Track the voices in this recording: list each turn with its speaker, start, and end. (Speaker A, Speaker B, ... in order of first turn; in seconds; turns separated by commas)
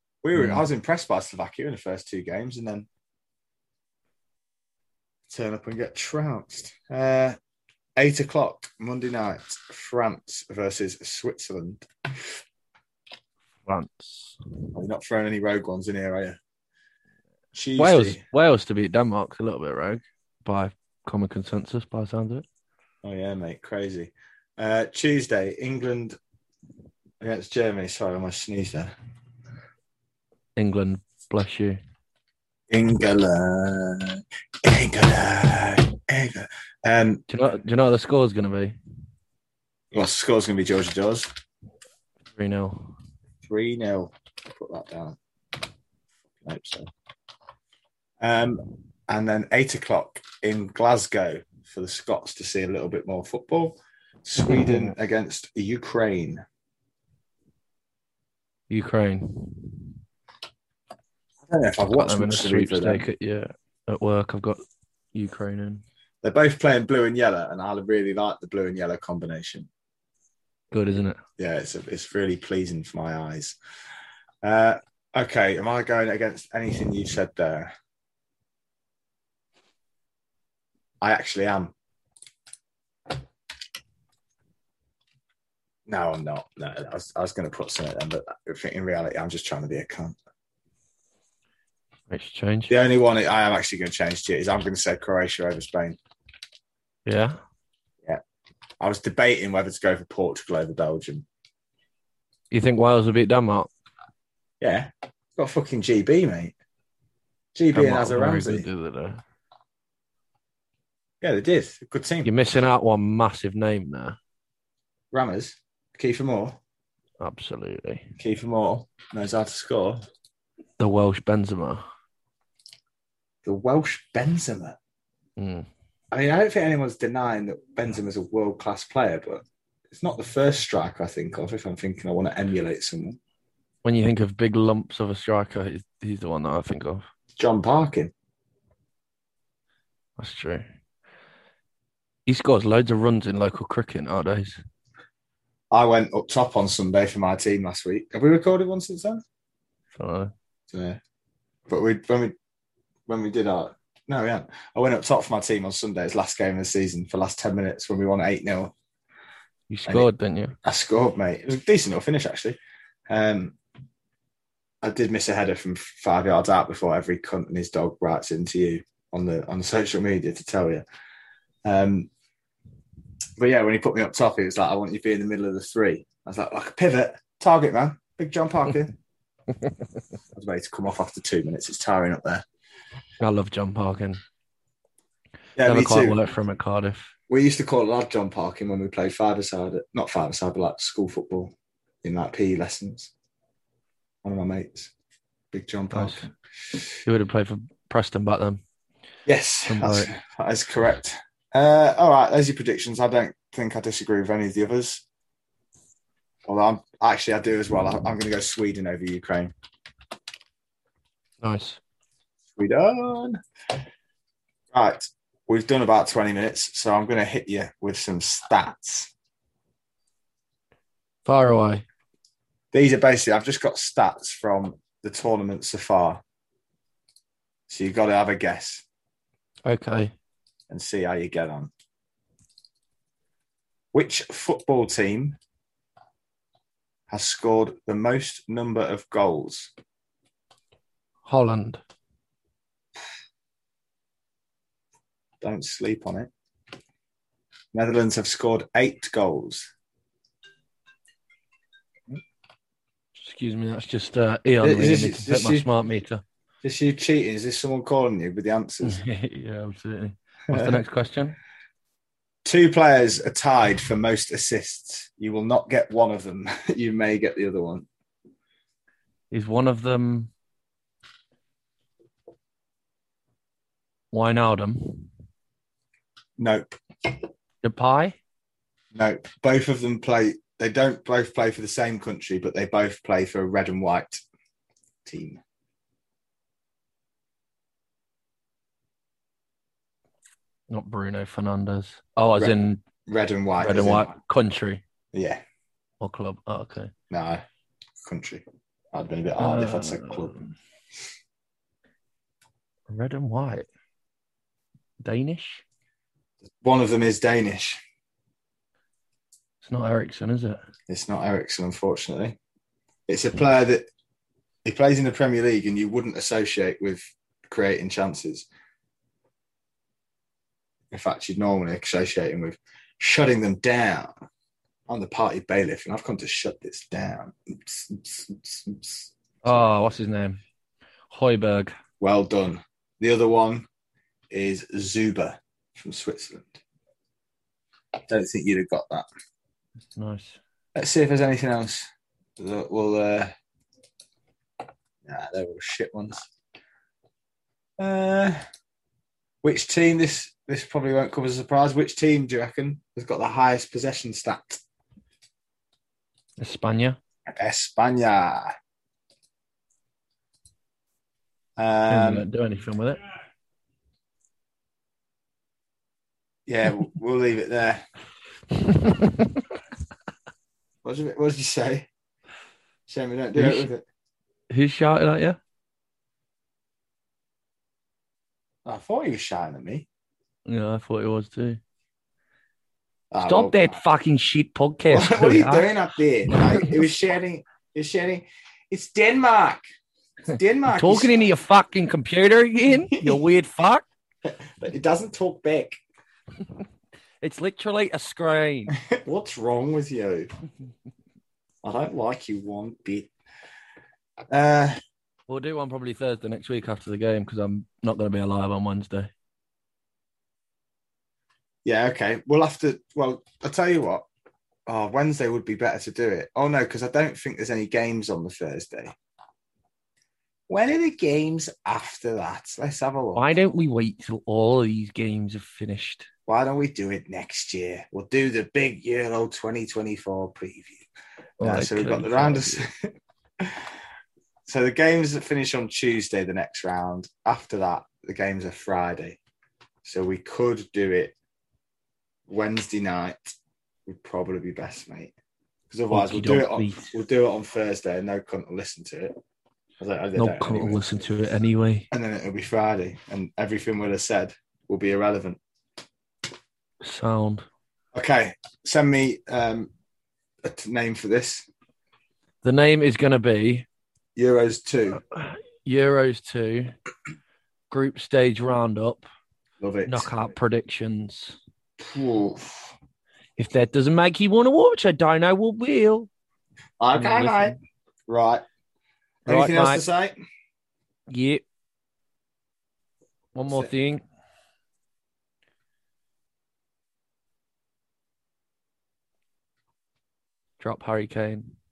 Speaker A: 0.2-2.9, Speaker B: 0.3-0.6, Speaker A: 5.3-7.4, Speaker A: 8.0-12.4, Speaker B: 13.6-14.4, Speaker A: 14.7-16.4, Speaker A: 17.5-18.2, Speaker B: 17.8-22.4, Speaker A: 23.0-26.2, Speaker A: 27.2-28.9, Speaker B: 30.6-31.8, Speaker A: 32.7-37.2, Speaker B: 37.3-38.8, Speaker A: 39.9-41.3, Speaker B: 42.3-42.9, Speaker A: 43.4-45.2, Speaker A: 46.4-46.9, Speaker A: 48.2-56.4, Speaker B: 54.4-54.9, Speaker B: 58.7-59.9, Speaker A: 61.5-63.0, Speaker B: 61.9-64.6, Speaker B: 65.1-65.8, Speaker A: 66.2-69.7, Speaker B: 70.7-71.2, Speaker A: 71.4-73.6, Speaker A: 74.4-77.7, Speaker A: 81.0-81.7, Speaker A: 85.9-90.2, Speaker B: 92.1-92.7, Speaker A: 92.7-96.0, Speaker B: 97.0-97.4, Speaker A: 98.8-101.2, Speaker B: 102.5-103.7, Speaker A: 104.6-106.5, Speaker A: 107.5-108.7, Speaker B: 107.7-109.2, Speaker A: 111.2-112.3, Speaker B: 112.2-114.2, Speaker A: 115.1-116.6, Speaker B: 117.2-118.1, Speaker A: 118.2-120.0, Speaker B: 120.8-121.8, Speaker A: 123.4-124.8, Speaker B: 125.4-125.7, Speaker A: 126.1-133.2, Speaker B: 133.8-137.0, Speaker A: 137.4-138.1, Speaker B: 140.2-140.6, Speaker B: 142.2-144.6, Speaker A: 145.7-149.2, Speaker B: 149.9-150.3, Speaker A: 150.7-151.0, Speaker A: 151.7-152.3, Speaker A: 153.1-158.7, Speaker B: 159.7-160.6, Speaker A: 160.6-162.6, Speaker A: 163.1-163.6, Speaker A: 164.8-170.8, Speaker A: 171.7-172.1, Speaker A: 173.4-178.9, Speaker A: 180.3-182.4, Speaker B: 183.2-184.2, Speaker A: 185.6-186.2, Speaker B: 185.6-187.1, Speaker A: 187.3-193.1, Speaker A: 194.2-194.9, Speaker A: 195.5-196.3, Speaker B: 195.9-196.3, Speaker B: 197.0-198.6, Speaker A: 199.2-205.0, Speaker B: 199.7-200.1, Speaker A: 206.5-209.5, Speaker B: 211.4-211.8, Speaker A: 212.6-213.4, Speaker A: 214.7-219.1, Speaker B: 221.2-221.8, Speaker A: 222.7-226.2, Speaker A: 227.7-228.8, Speaker B: 229.7-230.1, Speaker A: 230.7-231.7, Speaker A: 233.9-235.4, Speaker A: 237.1-239.7, Speaker B: 241.2-241.8, Speaker A: 245.4-246.3, Speaker A: 247.7-249.7, Speaker B: 253.2-256.2, Speaker A: 254.6-255.7, Speaker A: 256.6-259.0, Speaker B: 258.8-261.4, Speaker A: 260.5-260.8, Speaker A: 262.4-267.9, Speaker B: 269.3-270.3, Speaker B: 274.1-275.1, Speaker A: 276.4-276.8, Speaker B: 277.6-278.2, Speaker A: 278.9-284.2, Speaker A: 285.0-285.4, Speaker B: 290.7-292.8, Speaker A: 292.4-294.1, Speaker B: 293.6-294.8, Speaker A: 295.1-295.4, Speaker B: 296.0-296.9, Speaker A: 297.1-297.4, Speaker A: 298.0-300.3, Speaker B: 299.4-300.5, Speaker B: 302.9-303.7, Speaker B: 305.0-305.6, Speaker A: 306.6-307.8, Speaker B: 309.6-310.6, Speaker A: 310.9-312.4, Speaker A: 313.1-313.9, Speaker A: 314.6-318.5, Speaker A: 320.9-324.1, Speaker A: 324.9-329.7, Speaker B: 329.4-330.4, Speaker B: 331.1-331.8, Speaker A: 332.0-333.6, Speaker A: 334.3-336.6, Speaker A: 338.1-339.1, Speaker B: 339.9-340.4, Speaker A: 340.7-341.9, Speaker A: 342.4-343.3, Speaker A: 345.0-346.3, Speaker A: 347.8-348.4, Speaker A: 349.4-354.6, Speaker B: 356.4-357.0, Speaker A: 357.3-358.5, Speaker A: 361.6-362.3, Speaker B: 361.9-363.0, Speaker A: 366.5-367.8, Speaker B: 368.5-369.6, Speaker A: 370.8-371.9, Speaker A: 372.9-373.8, Speaker B: 373.3-373.7, Speaker B: 374.5-375.4, Speaker A: 378.6-379.9, Speaker B: 380.5-381.6, Speaker A: 383.1-383.8, Speaker B: 383.2-385.7, Speaker A: 384.9-389.6, Speaker B: 386.3-386.7, Speaker A: 390.3-391.3, Speaker B: 390.7-393.8, Speaker A: 392.9-393.2, Speaker A: 394.2-395.8, Speaker B: 397.2-398.7, Speaker A: 398.7-400.3, Speaker A: 401.6-403.1, Speaker A: 404.3-404.8, Speaker B: 405.3-409.1, Speaker A: 411.6-414.1, Speaker A: 414.7-418.9, Speaker A: 420.5-423.2, Speaker B: 423.1-426.1, Speaker A: 426.3-430.8, Speaker B: 431.4-432.7, Speaker A: 431.4-433.7, Speaker A: 434.4-439.2, Speaker A: 439.8-441.1, Speaker A: 442.3-443.3, Speaker A: 443.9-445.1, Speaker A: 445.7-449.1, Speaker B: 445.9-446.9, Speaker A: 449.8-450.8, Speaker B: 450.1-451.9, Speaker A: 451.9-455.4, Speaker B: 456.8-457.4, Speaker A: 457.9-459.7, Speaker A: 460.4-461.5, Speaker B: 462.4-463.6, Speaker A: 464.1-465.0, Speaker B: 465.1-466.7, Speaker B: 467.7-469.0, Speaker A: 469.6-470.1, Speaker B: 469.8-471.4, Speaker A: 471.8-472.7, Speaker B: 473.4-476.1, Speaker A: 476.8-477.6, Speaker B: 476.9-477.6, Speaker A: 478.1-478.4, Speaker B: 479.2-479.8, Speaker A: 479.2-480.1, Speaker B: 481.1-481.4, Speaker B: 483.3-484.0, Speaker B: 490.6-491.5